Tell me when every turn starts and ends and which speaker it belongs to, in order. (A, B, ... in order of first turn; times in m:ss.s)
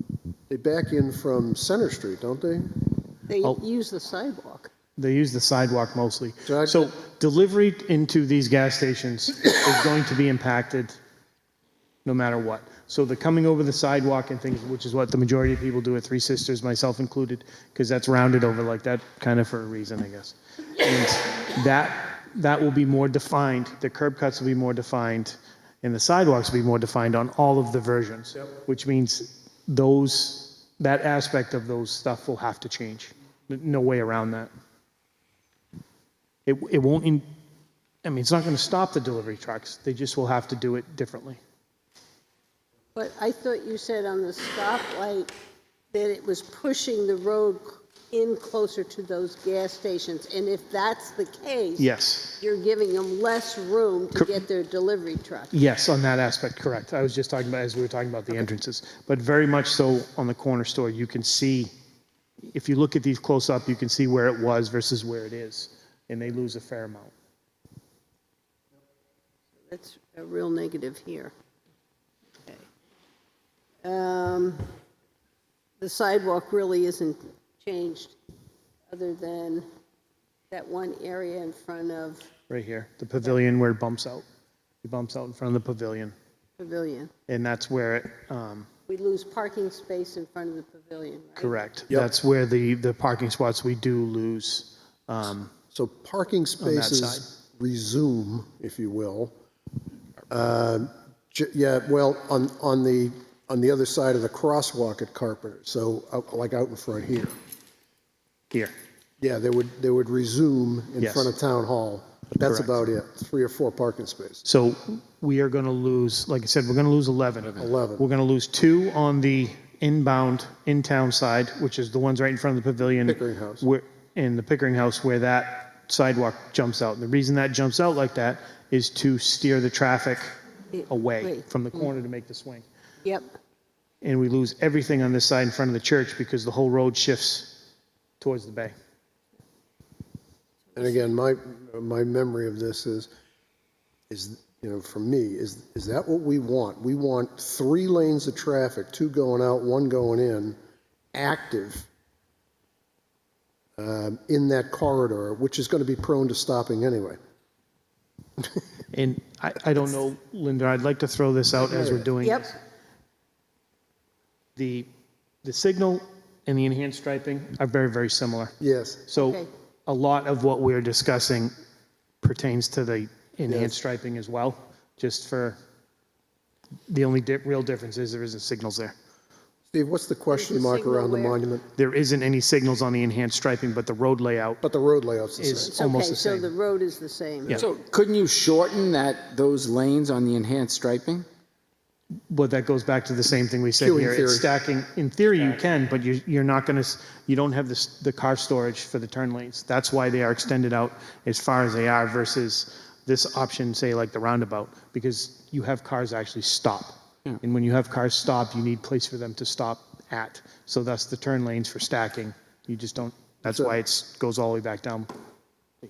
0:00.5-0:02.9 A
0:03.3-0:04.7 B
0:05.0-0:11.0 C
0:06.4-0:06.9 A
0:12.0-0:34.5 C
0:36.4-0:37.2 C
0:38.0-0:41.4 C
0:42.9-0:45.3 B
0:45.9-0:55.5 B
0:51.8-0:52.4 C
0:55.5-1:01.7 C
1:02.5-1:07.1 C
1:09.7-1:11.3 B
1:13.8-1:14.7 B
1:15.8-1:18.1 B
1:18.9-1:19.7 B
1:20.5-1:22.3 B
1:22.5-1:24.2 C
1:24.8-1:26.1 C
1:26.6-1:27.1 B
1:27.3-1:28.7 C
1:28.9-1:31.6 B
1:31.4-1:35.5 C
1:35.7-1:39.3 A
1:36.6-1:37.2 C
1:40.3-1:47.3 A
1:49.2-1:54.4 A
1:51.0-1:51.3 C
1:52.4-1:52.8 C
1:54.4-2:10.3 C
1:57.6-1:58.1 A
2:03.0-2:03.7 A
2:10.7-2:11.4 B
2:10.9-2:12.6 C
2:13.0-2:13.3 B
2:14.0-2:17.6 C
2:18.2-2:18.7 C
2:20.8-2:23.1 A
2:24.1-2:30.6 A
2:31.1-2:31.9 A
2:33.8-2:37.2 A
2:38.9-2:42.5 C
2:42.0-2:42.5 B
2:44.6-2:44.9 C
2:45.4-2:48.5 C
2:48.6-2:49.0 A
2:49.1-2:51.5 C
2:49.1-2:49.5 B
2:52.2-2:55.6 C
2:53.5-2:53.8 A
2:56.9-2:58.9 C
2:59.7-3:01.7 A
3:00.3-3:01.4 B
3:01.8-3:04.6 C
3:04.6-3:05.8 A
3:05.4-3:06.5 C
3:05.7-3:07.6 B
3:07.5-3:11.3 D
3:12.3-3:35.1 C
3:13.8-3:14.5 A
3:33.4-3:33.8 A